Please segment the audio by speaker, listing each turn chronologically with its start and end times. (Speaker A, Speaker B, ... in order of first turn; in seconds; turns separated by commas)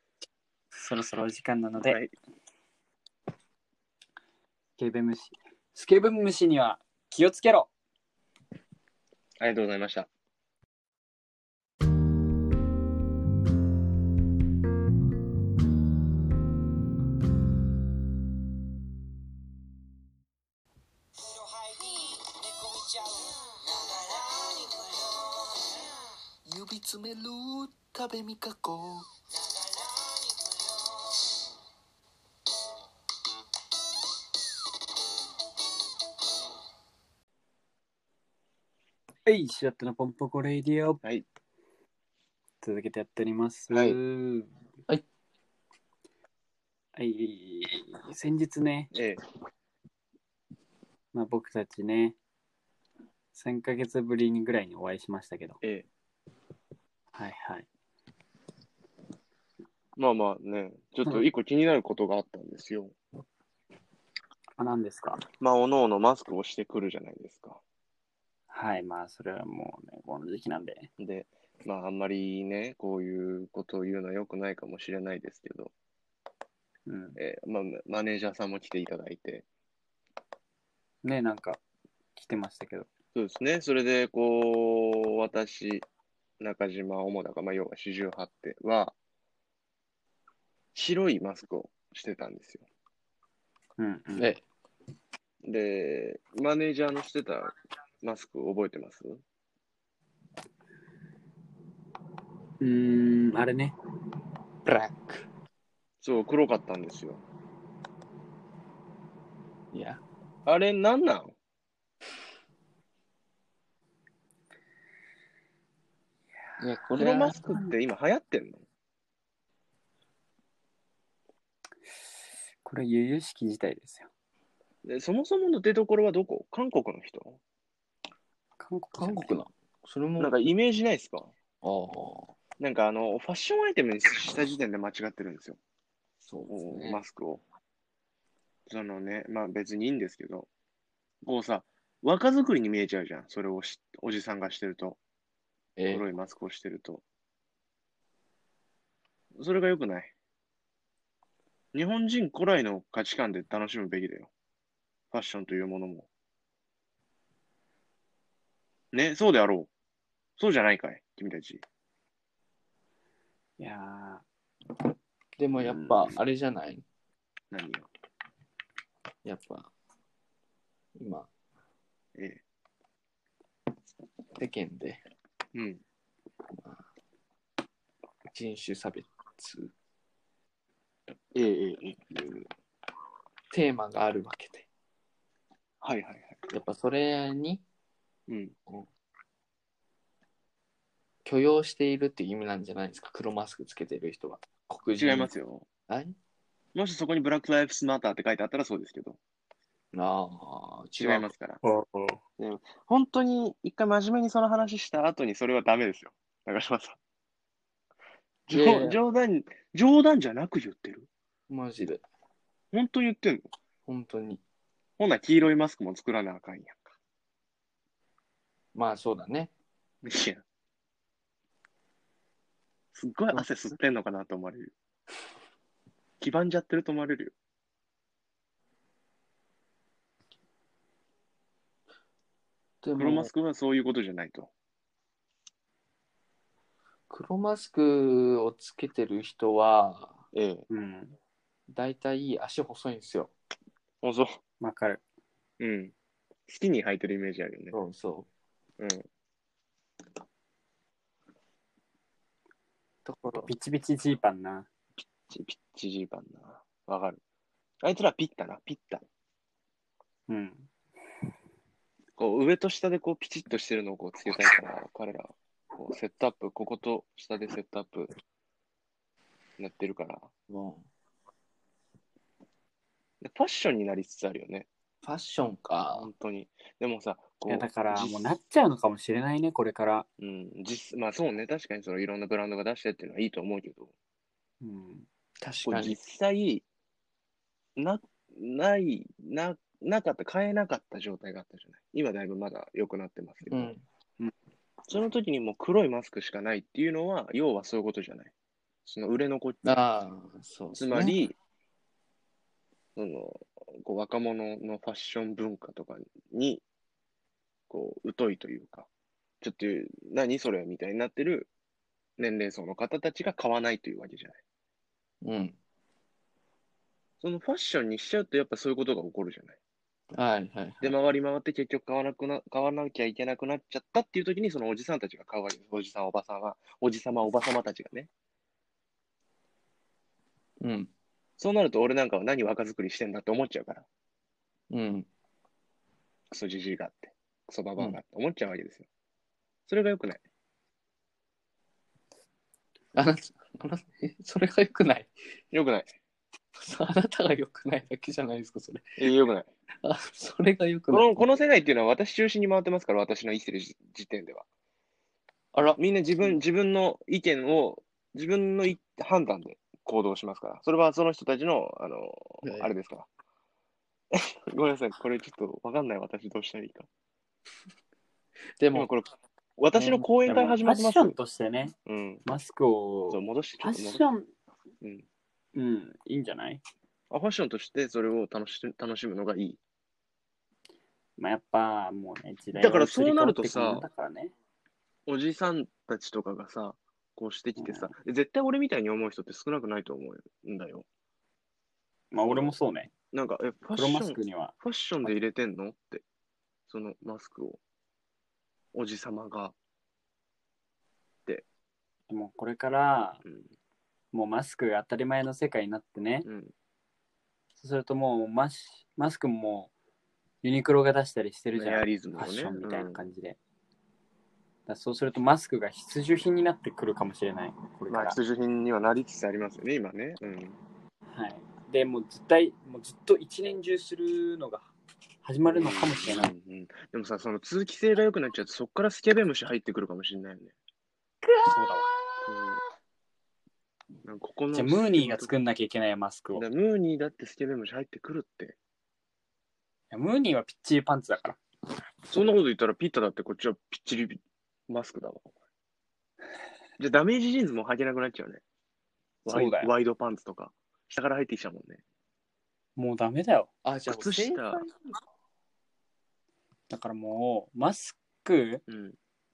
Speaker A: 0.8-2.0, Speaker B: 1.9-2.1, Speaker A: 4.8-7.7, Speaker B: 9.4-10.1, Speaker C: 21.2-25.9, Speaker C: 26.4-31.3, Speaker A: 39.2-41.0, Speaker A: 42.6-44.5, Speaker B: 43.7-44.0, Speaker A: 47.0-48.9, Speaker B: 48.9-49.2, Speaker A: 51.1-52.1, Speaker A: 53.3-55.6, Speaker B: 55.6-55.9, Speaker A: 57.1-57.7, Speaker B: 60.0-62.9, Speaker A: 64.6-65.2, Speaker B: 65.4-67.6, Speaker A: 68.5-70.9, Speaker B: 71.0-75.7, Speaker A: 76.9-77.2, Speaker B: 77.2-79.5, Speaker A: 81.0-81.6, Speaker A: 82.2-82.9, Speaker B: 83.1-85.9, Speaker B: 86.4-88.9, Speaker B: 90.7-92.7, Speaker A: 93.8-94.3, Speaker D: 94.2-94.4, Speaker B: 95.4-99.2, Speaker A: 102.6-103.7, Speaker D: 104.6-105.2, Speaker B: 106.0-107.2, Speaker D: 109.7-110.0, Speaker B: 110.5-111.3, Speaker D: 116.6-117.4, Speaker B: 117.0-118.6, Speaker A: 117.4-117.7, Speaker A: 122.6-124.1, Speaker B: 124.8-127.4, Speaker A: 128.6-129.4, Speaker D: 129.0-130.3, Speaker B: 130.2-131.3, Speaker D: 131.6-132.3, Speaker B: 132.6-135.6, Speaker D: 136.2-137.0, Speaker B: 136.5-137.4, Speaker B: 138.7-140.5, Speaker B: 141.2-145.0, Speaker D: 145.8-146.1, Speaker B: 145.9-147.0, Speaker B: 149.3-150.1, Speaker B: 151.7-154.3, Speaker B: 155.1-156.1, Speaker B: 158.9-159.7, Speaker B: 160.4-161.6, Speaker A: 163.6-164.2, Speaker D: 165.4-166.8, Speaker A: 165.6-166.2, Speaker B: 167.5-167.9, Speaker D: 169.2-169.7, Speaker D: 170.9-171.3, Speaker D: 174.3-175.0, Speaker B: 175.5-175.8, Speaker D: 178.3-179.7, Speaker B: 181.3-182.3, Speaker D: 183.5-184.7, Speaker B: 185.8-186.4, Speaker D: 186.5-187.6, Speaker B: 188.3-188.5, Speaker D: 191.2-195.3, Speaker B: 195.0-195.7, Speaker D: 195.9-196.2, Speaker B: 196.7-199.2, Speaker D: 199.9-201.3, Speaker B: 201.0-201.6, Speaker A: 201.6-202.2, Speaker B: 202.4-207.0, Speaker B: 208.5-211.1, Speaker D: 208.5-209.0, Speaker D: 211.5-212.0, Speaker B: 212.7-213.5, Speaker D: 213.9-214.4, Speaker B: 215.0-216.9, Speaker D: 218.7-219.5, Speaker B: 220.0-220.4, Speaker B: 222.9-224.7, Speaker D: 223.3-223.8, Speaker B: 226.2-227.3, Speaker D: 232.8-233.3, Speaker B: 232.9-234.5, Speaker D: 237.1-240.2, Speaker B: 240.3-240.7, Speaker A: 240.7-241.1, Speaker D: 241.7-243.3, Speaker B: 244.0-244.4, Speaker A: 244.6-245.0, Speaker B: 245.6-245.9, Speaker B: 246.5-247.8, Speaker D: 247.7-248.3, Speaker B: 248.8-249.1, Speaker D: 253.1-253.5, Speaker A: 253.4-254.7, Speaker B: 255.3-257.2, Speaker B: 257.8-259.0, Speaker A: 260.3-260.7, Speaker B: 262.2-268.1, Speaker B: 269.6-270.3, Speaker D: 270.5-270.9, Speaker B: 273.2-274.7, Speaker D: 275.0-276.1, Speaker B: 275.9-278.3, Speaker A: 277.5-280.1, Speaker B: 280.2-283.9, Speaker A: 284.6-285.1, Speaker D: 285.4-285.9, Speaker B: 285.6-286.6, Speaker B: 287.8-293.7, Speaker D: 293.5-293.8, Speaker B: 294.9-298.3, Speaker B: 298.8-299.8, Speaker D: 299.6-301.2, Speaker B: 300.7-301.3, Speaker B: 302.9-306.6, Speaker B: 307.7-308.9, Speaker B: 309.4-311.5, Speaker B: 312.2-314.4, Speaker D: 315.2-315.6, Speaker B: 317.2-319.6, Speaker D: 320.1-320.9, Speaker B: 320.8-328.1, Speaker D: 330.6-330.9, Speaker B: 331.4-333.9, Speaker D: 334.7-335.1, Speaker B: 336.3-338.9, Speaker B: 339.7-340.2, Speaker D: 342.9-345.1, Speaker B: 345.5-345.9, Speaker D: 346.5-349.0, Speaker B: 349.0-349.5, Speaker D: 349.8-351.2, Speaker B: 350.9-354.4, Speaker D: 355.5-356.4, Speaker B: 355.8-363.1, Speaker D: 362.4-362.7, Speaker B: 364.1-366.9, Speaker D: 368.6-368.9, Speaker B: 368.7-371.1, Speaker D: 369.7-370.1, Speaker A: 370.2-374.3, Speaker B: 371.9-372.2, Speaker B: 373.1-374.0, Speaker B: 374.8-375.1, Speaker A: 375.5-376.6, Speaker B: 377.1-379.6, Speaker A: 381.2-384.3, Speaker B: 382.5-383.9, Speaker B: 385.1-390.9, Speaker A: 387.6-387.9, Speaker A: 392.1-392.9, Speaker B: 392.2-392.6, Speaker B: 393.1-396.0, Speaker A: 393.7-395.1, Speaker B: 396.7-397.6, Speaker B: 398.7-399.5, Speaker A: 402.1-403.2, Speaker B: 403.2-403.5, Speaker A: 404.1-406.3, Speaker B: 406.2-406.5, Speaker A: 407.6-409.7, Speaker A: 410.4-413.4, Speaker B: 411.5-413.0, Speaker A: 414.7-418.2, Speaker B: 417.9-420.6, Speaker A: 421.1-424.7, Speaker A: 425.2-426.3, Speaker B: 425.4-430.5, Speaker A: 431.4-431.9, Speaker B: 432.2-432.6, Speaker B: 434.0-435.3, Speaker A: 434.5-436.4, Speaker B: 436.3-438.6, Speaker A: 439.9-441.4, Speaker B: 442.1-445.3, Speaker B: 446.8-448.4, Speaker B: 449.2-451.8, Speaker A: 449.3-449.7, Speaker A: 452.8-453.5, Speaker D: 453.6-454.8, Speaker B: 453.9-454.6, Speaker A: 456.7-458.6, Speaker B: 458.7-459.0